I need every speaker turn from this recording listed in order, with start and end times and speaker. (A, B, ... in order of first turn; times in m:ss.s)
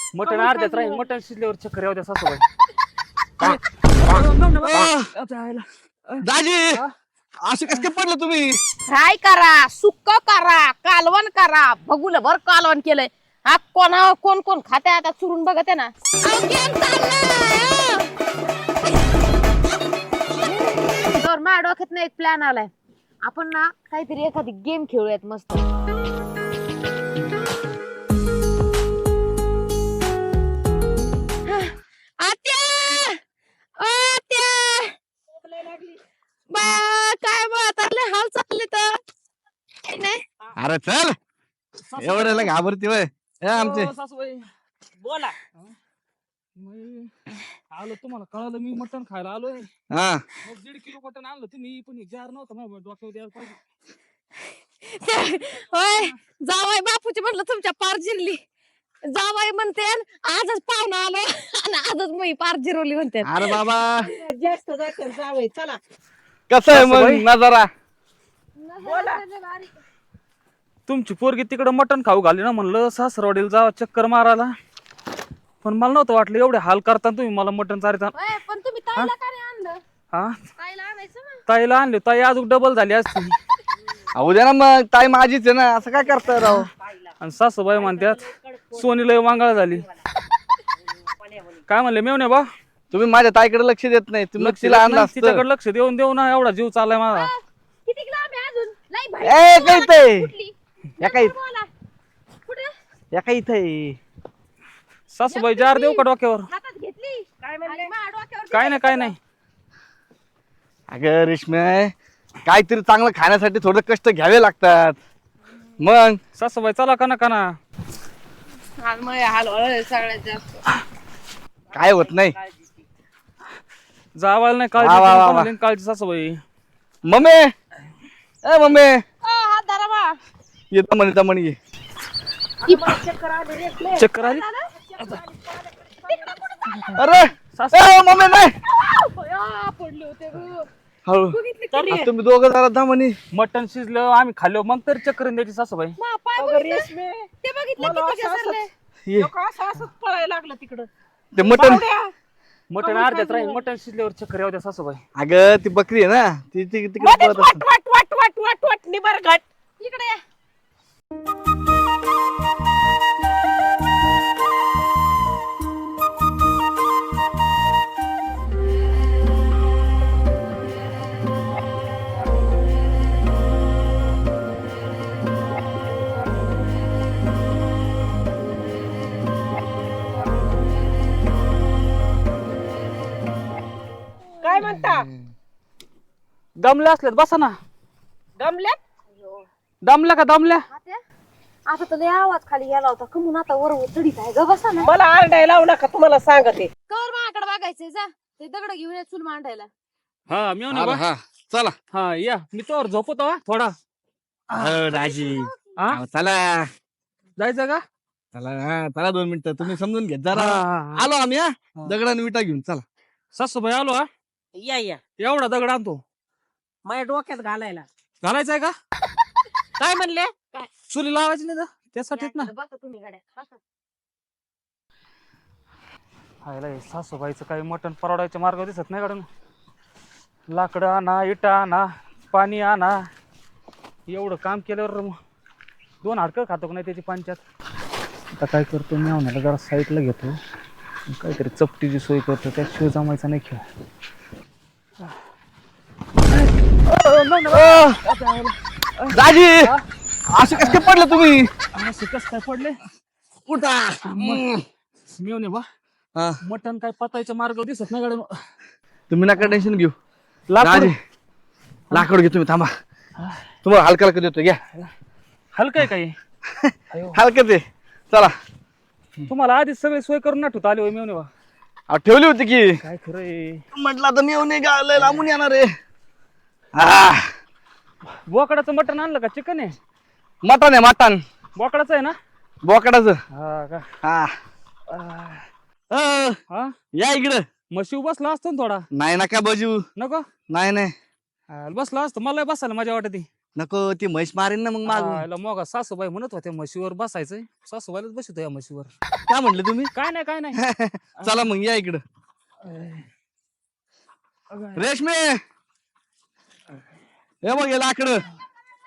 0:00.1-0:02.4 A
0:00.2-0:01.0 B
0:03.4-0:06.9 A
0:04.7-0:05.1 C
0:06.2-0:06.8 C
0:07.4-0:08.6 C
0:08.9-0:18.1 B
0:20.4-0:22.7 B
0:23.2-0:25.6 B
0:31.5-0:33.2 B
0:33.8-0:35.0 B
0:35.3-0:36.0 D
0:36.5-0:39.0 B
0:39.8-0:40.2 B
0:40.6-0:41.2 C
0:41.9-0:42.5 A
0:42.0-0:43.9 C
0:43.5-0:44.5 A
0:45.0-0:45.4 D
0:46.6-0:47.1 A
0:47.7-0:49.7 A
0:49.9-0:50.2 C
0:50.4-0:53.6 A
0:54.8-0:58.4 B
0:59.0-1:03.6 B
1:03.2-1:04.1 C
1:04.0-1:05.8 D
1:06.5-1:07.7 C
1:06.7-1:07.3 A
1:08.6-1:09.8 B
1:08.8-1:09.2 D
1:10.9-1:14.6 A
1:15.6-1:18.2 A
1:18.1-1:19.8 B
1:20.1-1:20.4 A
1:20.6-1:21.4 B
1:21.5-1:23.4 A
1:24.2-1:26.7 C
1:26.1-1:27.1 D
1:27.2-1:28.2 A
1:27.7-1:28.9 D
1:28.8-1:29.8 A
1:30.9-1:31.6 D
1:31.7-1:32.5 A
1:32.9-1:35.4 C
1:34.4-1:37.3 A
1:37.1-1:41.7 B
1:39.2-1:40.3 C
1:41.0-1:41.4 C
1:42.4-1:42.7 B
1:43.1-1:44.0 C
1:45.1-1:46.5 A
1:45.3-1:49.1 B
1:47.4-1:47.9 D
1:48.5-1:49.2 A
1:50.9-1:51.9 C
1:52.4-1:55.0 C
1:55.8-1:56.2 C
1:56.4-1:57.6 A
1:58.8-2:00.5 B
2:01.7-2:02.3 C
2:01.7-2:02.7 D
2:04.2-2:06.4 A
2:04.8-2:05.5 C
2:07.0-2:07.5 C
2:08.4-2:09.0 C
2:09.2-2:10.2 B
2:10.7-2:11.6 C
2:12.6-2:16.9 D
2:12.7-2:13.0 B
2:14.0-2:14.4 A
2:14.2-2:14.7 B
2:16.1-2:17.0 B
2:17.0-2:18.6 C
2:17.6-2:18.0 A
2:18.8-2:20.7 B
2:21.1-2:21.4 C
2:21.3-2:22.0 B
2:21.7-2:22.1 D
2:21.9-2:23.2 C
2:23.3-2:26.0 A
2:26.0-2:26.9 B
2:26.4-2:32.1 D
2:27.4-2:28.7 B
2:29.0-2:29.3 C
2:31.3-2:31.8 C
2:32.7-2:35.0 A
2:32.8-2:33.6 B
2:35.2-2:37.6 C
2:37.0-2:39.4 D
2:39.8-2:40.2 B
3:04.4-3:05.1 D
3:06.6-3:07.6 A
3:08.4-3:08.8 D
3:09.1-3:09.5 B
3:09.8-3:10.6 A
3:10.7-3:11.0 B
3:11.7-3:14.9 B
3:14.8-3:16.7 D
3:16.9-3:19.7 B
3:20.3-3:21.0 A
3:20.7-3:21.8 C
3:21.9-3:23.8 A
3:24.5-3:24.8 A
3:24.6-3:26.7 C
3:24.9-3:25.6 B
3:25.8-3:26.0 A
3:27.4-3:27.8 A
3:28.3-3:32.8 C
3:30.3-3:31.1 A
3:33.4-3:34.1 A
3:34.6-3:35.0 D
3:35.2-3:36.0 A
3:36.9-3:37.9 D
3:38.2-3:38.7 A
3:39.8-3:40.3 D
3:40.9-3:42.5 A
3:42.1-3:43.6 B
3:46.4-3:49.3 A
3:50.5-3:53.1 A
3:54.1-3:55.2 A
3:56.0-3:57.4 A
3:58.4-4:00.4 A
4:01.1-4:03.6 A
4:06.3-4:09.8 A
4:07.5-4:08.0 C
4:09.1-4:09.7 C
4:10.3-4:11.5 C
4:10.6-4:10.9 A
4:11.7-4:12.8 A
4:13.5-4:14.6 C
4:14.0-4:14.5 A
4:15.1-4:15.7 A
4:16.2-4:16.4 C
4:16.4-4:18.3 A
4:19.1-4:20.0 C
4:20.5-4:20.9 A
4:20.6-4:21.0 C
4:21.9-4:22.7 C
4:23.6-4:24.6 C
4:25.5-4:26.2 A
4:26.5-4:28.3 C
4:26.9-4:27.2 A
4:29.3-4:31.3 A
4:31.9-4:32.8 C
4:32.8-4:33.6 A
4:33.7-4:35.7 C
4:35.0-4:35.2 A
4:36.8-4:37.3 C
4:38.3-4:39.8 A
4:40.4-4:41.2 C
4:41.6-4:42.2 A
4:42.6-4:43.2 C
4:43.3-4:43.8 A
4:44.0-4:44.3 C
4:44.9-4:45.4 A
4:45.9-4:46.4 C
4:46.5-4:46.8 A
4:46.9-4:47.4 C
4:47.7-4:48.8 A
4:48.9-4:49.8 C
4:50.0-4:50.3 A
4:50.5-4:50.9 C
4:51.5-4:53.3 A
4:53.6-4:55.2 C
4:54.9-4:58.9 A
4:59.3-4:59.9 C
5:00.0-5:00.6 A
5:00.5-5:02.0 C
5:01.2-5:01.5 A
5:02.6-5:03.1 A
5:04.5-5:04.8 A
5:04.7-5:05.4 C
5:07.4-5:08.2 C